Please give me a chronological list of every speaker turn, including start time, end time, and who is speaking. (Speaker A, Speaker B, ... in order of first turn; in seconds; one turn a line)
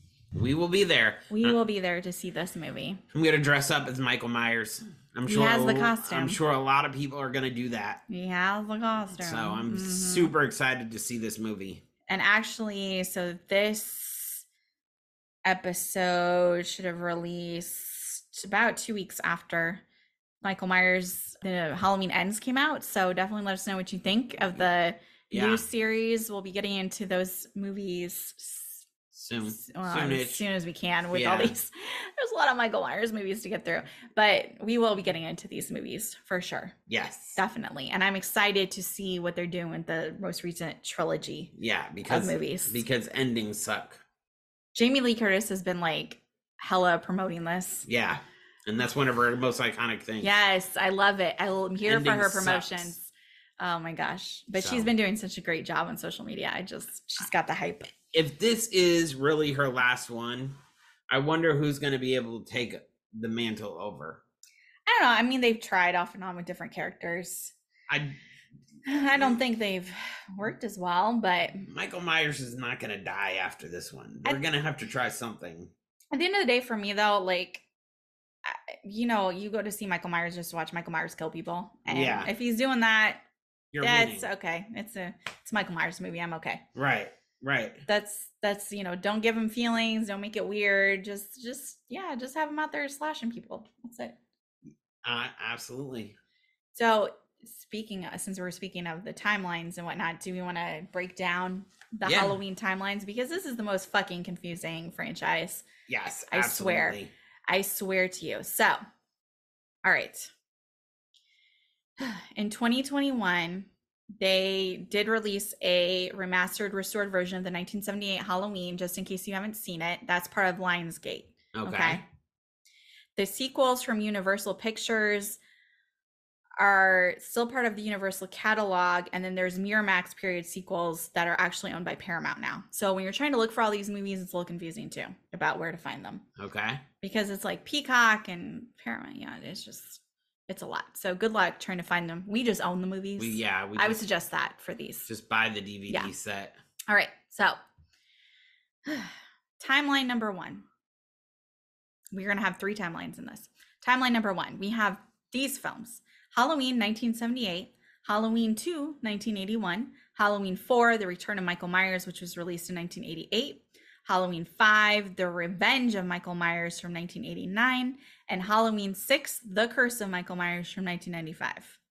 Speaker A: 0.3-1.6
Speaker B: 1.3-3.0
Speaker A: 3.1-8.0
Speaker B: 5.2-6.4
Speaker B: 8.1-10.3
Speaker A: 9.2-11.8
Speaker B: 12.1-14.4
Speaker B: 15.4-19.8
Speaker B: 20.4-28.9
Speaker A: 25.3-25.6
Speaker A: 29.1-30.4
Speaker B: 29.5-36.7
Speaker A: 31.1-31.6
Speaker A: 36.9-37.4
Speaker B: 37.4-41.5
Speaker A: 41.5-44.0
Speaker B: 42.0-42.8
Speaker B: 44.7-47.9
Speaker A: 47.9-50.3
Speaker B: 50.2-57.9
Speaker A: 51.8-52.9
Speaker A: 54.6-54.9
Speaker A: 58.1-60.5
Speaker A: 61.1-64.2
Speaker B: 64.9-67.5
Speaker A: 67.9-68.2
Speaker B: 68.8-71.7
Speaker A: 71.6-75.7
Speaker B: 76.1-77.7
Speaker B: 78.4-83.2
Speaker A: 81.8-82.3
Speaker A: 83.7-84.3
Speaker B: 83.8-86.6
Speaker A: 86.7-87.8
Speaker B: 87.8-94.2
Speaker A: 95.0-96.2
Speaker B: 96.7-105.7
Speaker A: 102.0-102.4
Speaker A: 105.9-107.1
Speaker B: 106.3-108.8
Speaker B: 109.8-110.3
Speaker B: 112.0-122.0
Speaker A: 121.5-122.0
Speaker B: 123.2-125.4
Speaker B: 126.6-136.2
Speaker A: 136.4-136.8
Speaker B: 137.0-145.1
Speaker A: 143.2-144.0
Speaker A: 145.1-146.6
Speaker B: 146.9-147.6
Speaker B: 148.8-150.7
Speaker B: 152.1-171.8